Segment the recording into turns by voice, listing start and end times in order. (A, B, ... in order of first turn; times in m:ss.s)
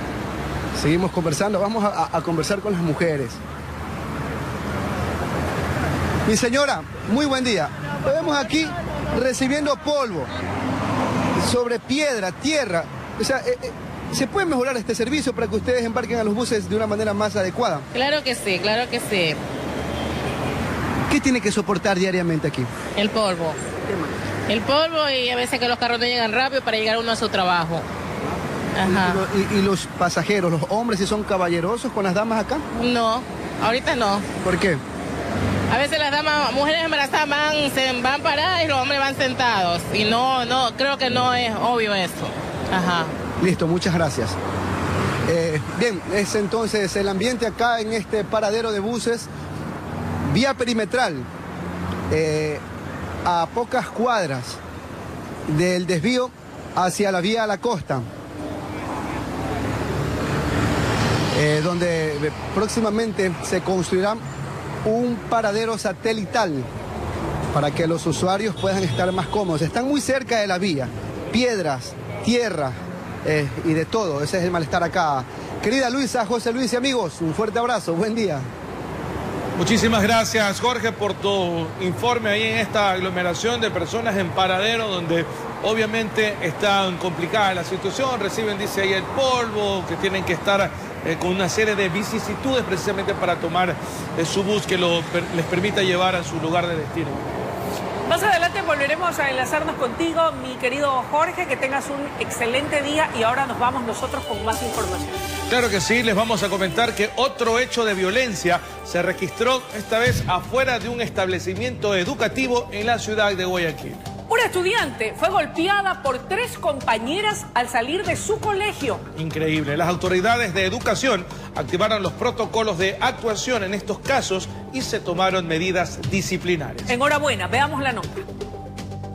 0:00.8-0:03.4 A
0:06.2-0:10.3 A
0:11.4-0:17.8 A
0:17.9-0:19.4 B
0:21.1-0:22.7 A
0:23.0-0:23.6 B
0:24.5-0:27.8 B
0:28.8-0:29.2 B
0:28.9-0:32.6 A
0:32.8-0:34.2 B
0:34.4-0:34.8 A
0:35.7-0:43.1 B
0:43.4-0:44.3 A
0:45.3-0:49.3 A
0:50.2-0:51.3 A
0:52.1-0:52.6 A
0:53.2-0:54.6 A
0:55.5-0:58.1 A
1:01.3-1:04.2 A
1:04.8-1:06.7 A
1:07.5-1:18.5 A
1:19.6-1:37.3 C
1:38.1-1:45.2 D
1:45.5-1:54.0 C
1:54.3-1:59.0 D
1:59.2-2:06.9 C
2:06.9-2:08.2 D